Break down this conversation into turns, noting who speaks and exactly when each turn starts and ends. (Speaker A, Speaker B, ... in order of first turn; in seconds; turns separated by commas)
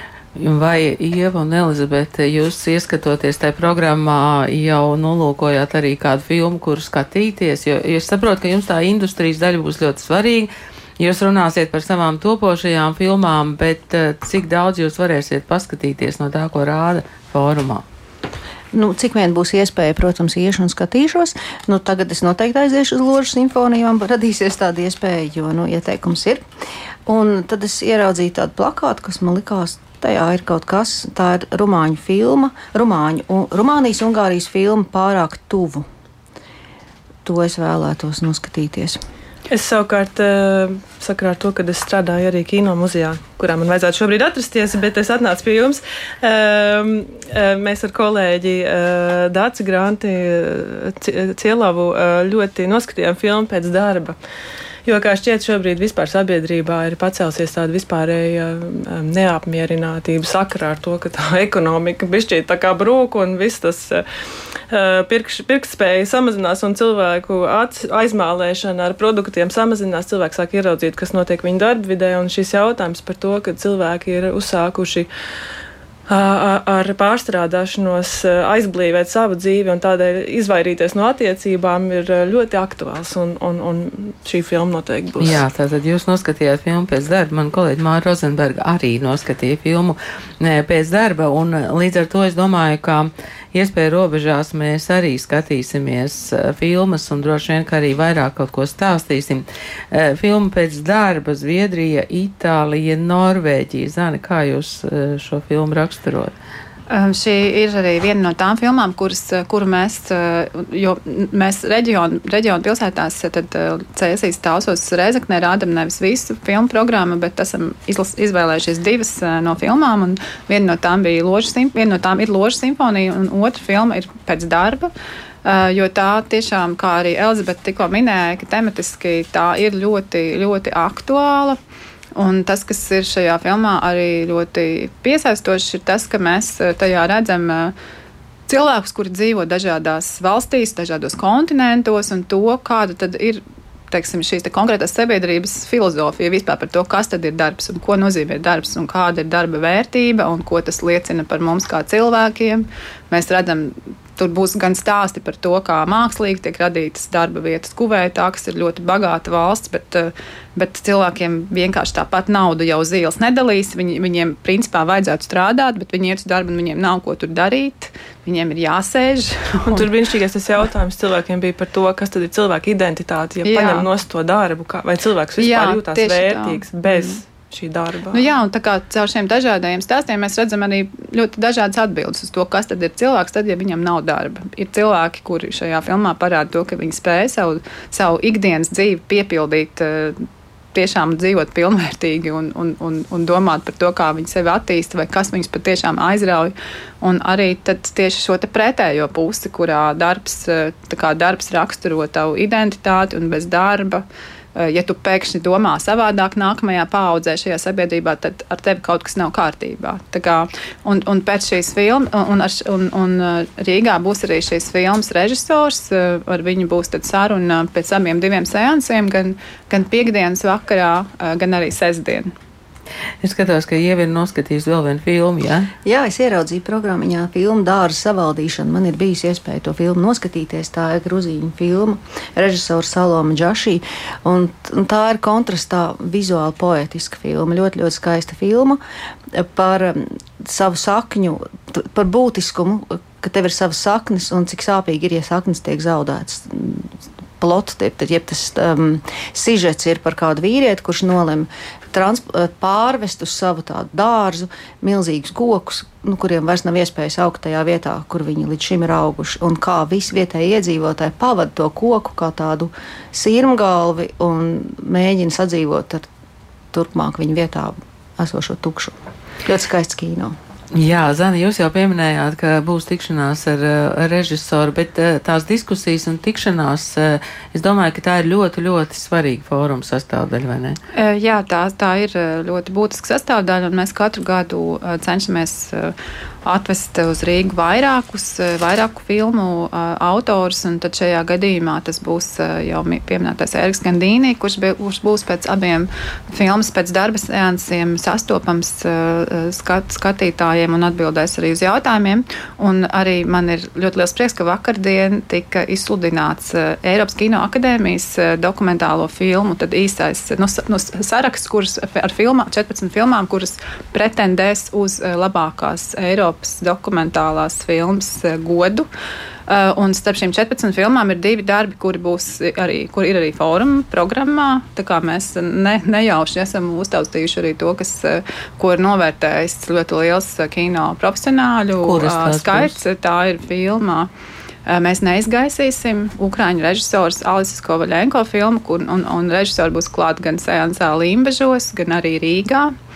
Speaker A: 0.3-17.8, Speaker B: 18.7-26.4, Speaker B: 27.1-35.8, Speaker B: 37.2-39.0, Speaker C: 39.5-54.1, Speaker C: 54.9-64.0, Speaker C: 64.7-75.1, Speaker C: 76.1-85.4, Speaker A: 85.2-106.3, Speaker D: 106.9-124.9, Speaker D: 125.4-131.6, Speaker D: 132.2-137.7, Speaker D: 138.5-169.9, Speaker C: 169.7-178.3, Speaker D: 173.4-173.9, Speaker D: 175.4-177.2, Speaker D: 178.1-190.2, Speaker D: 190.7-204.0, Speaker D: 204.5-222.3, Speaker A: 223.2-225.7, Speaker B: 225.8-238.8, Speaker B: 239.3-266.1, Speaker B: 266.7-270.3, Speaker A: 270.7-280.8, Speaker D: 280.9-285.9, Speaker D: 286.4-318.9, Speaker D: 319.5-334.1, Speaker A: 331.8-332.8, Speaker D: 334.6-342.7